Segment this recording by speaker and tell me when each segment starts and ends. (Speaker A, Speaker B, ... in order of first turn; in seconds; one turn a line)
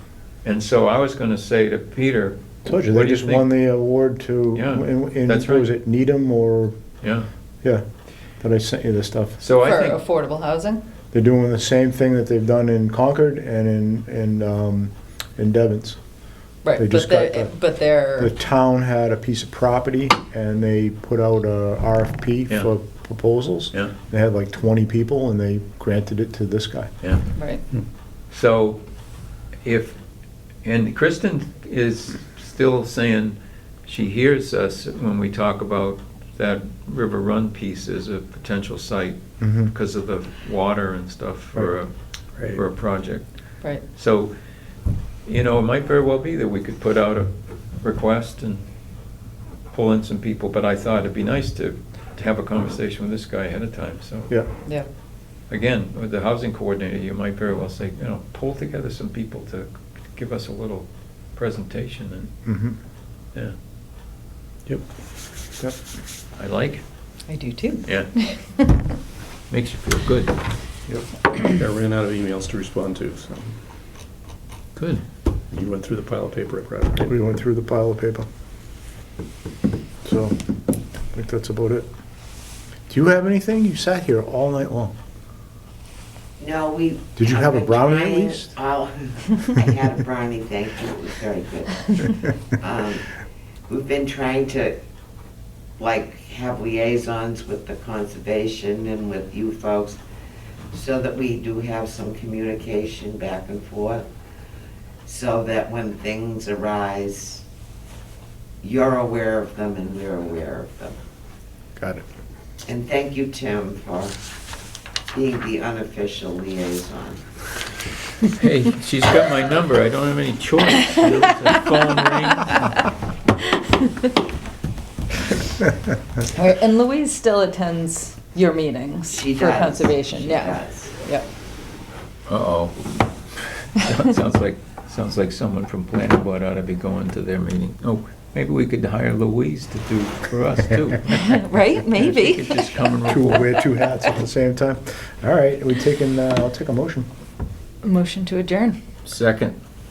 Speaker A: 0.4-3.7
Speaker B: 2.6-6.7
Speaker A: 4.5-5.7
Speaker A: 7.0-7.3
Speaker B: 8.4-9.4
Speaker A: 9.4-10.0
Speaker C: 9.6-10.8
Speaker B: 11.1-16.0
Speaker C: 16.6-18.3
Speaker B: 16.8-26.9
Speaker C: 27.4-27.6
Speaker A: 28.3-28.8
Speaker A: 29.6-30.0
Speaker A: 30.6-44.3
Speaker B: 39.4-39.7
Speaker A: 45.2-48.6
Speaker A: 49.7-54.5
Speaker A: 55.5-62.3
Speaker B: 62.4-62.8
Speaker A: 66.3-66.8
Speaker C: 67.3-68.7
Speaker A: 67.8-68.1
Speaker A: 69.5-70.4
Speaker D: 71.4-73.6
Speaker A: 74.8-75.0
Speaker D: 75.5-77.1
Speaker B: 77.0-78.3
Speaker B: 80.0-80.3
Speaker B: 81.1-81.9
Speaker B: 82.9-84.9
Speaker E: 86.4-93.2
Speaker B: 87.2-88.5
Speaker E: 93.7-94.8
Speaker E: 95.8-100.0
Speaker E: 100.7-104.0
Speaker E: 105.0-107.4
Speaker E: 108.6-110.9
Speaker B: 111.8-112.0
Speaker E: 112.6-114.1
Speaker E: 115.1-117.2
Speaker A: 118.3-122.8
Speaker C: 122.4-122.7
Speaker C: 126.3-131.3
Speaker E: 129.1-130.9
Speaker A: 132.3-132.8
Speaker A: 133.8-141.4
Speaker C: 141.1-142.8
Speaker A: 141.9-143.5
Speaker B: 143.1-147.1
Speaker C: 147.8-148.8
Speaker A: 149.0-149.6